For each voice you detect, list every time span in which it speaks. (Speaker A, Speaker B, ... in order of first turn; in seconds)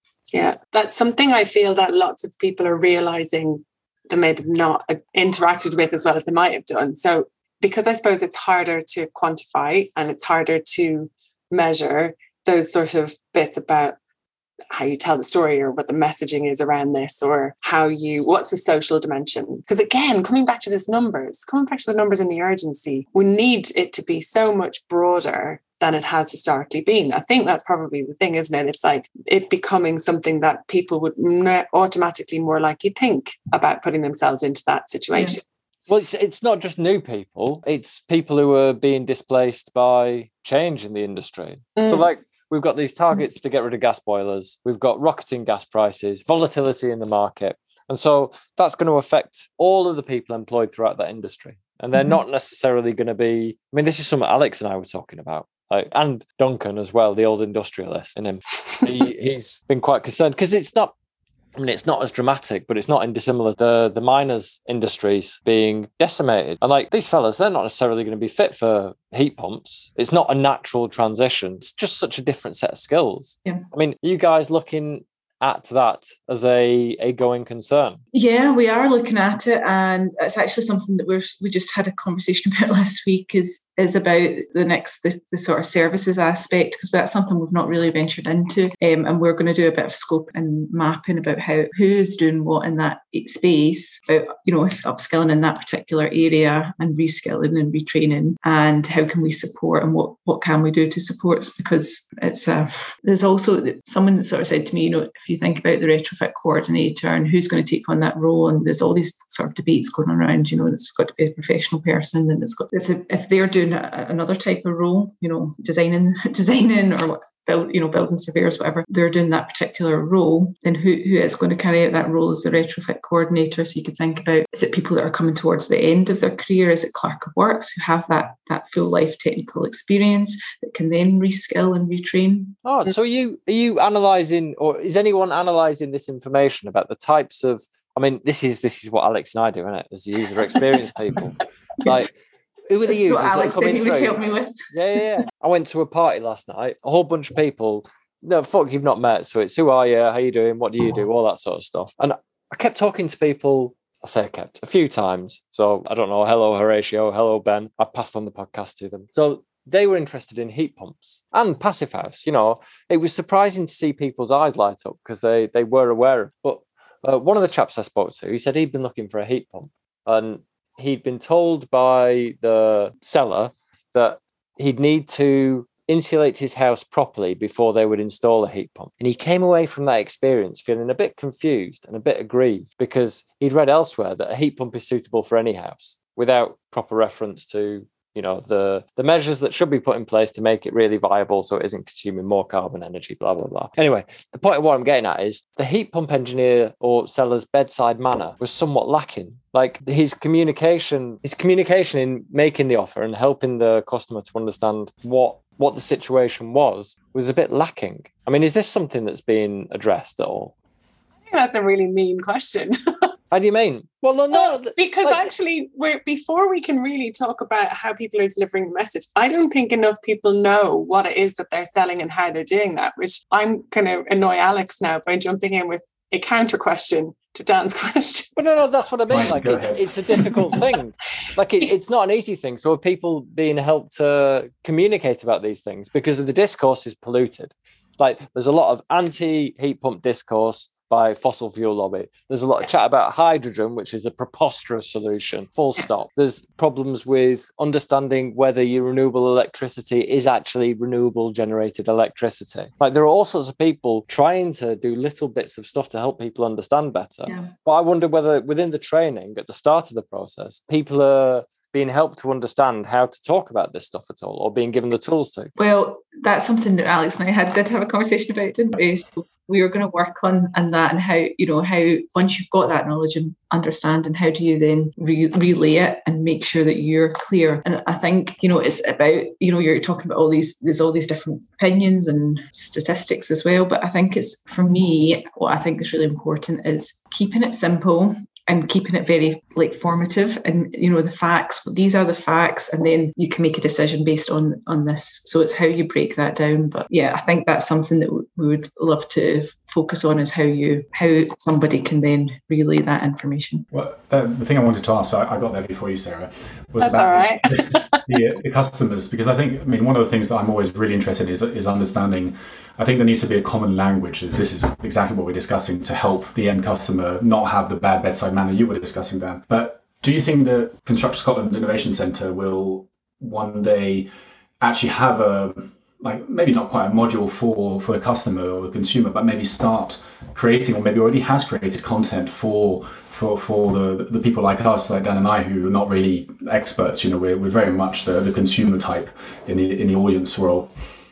Speaker A: 0.3-14.0, 14.7-35.4, 41.8-42.1, 211.3-212.8, 214.3-228.3, 306.8-308.0
Speaker B: 35.9-60.9, 61.6-78.0, 132.7-142.1, 142.7-210.5, 213.3-215.2, 228.4-265.5
Speaker C: 78.1-132.6, 142.9-144.6, 265.6-303.7
Speaker D: 229.1-229.9, 303.7-324.1, 324.6-340.7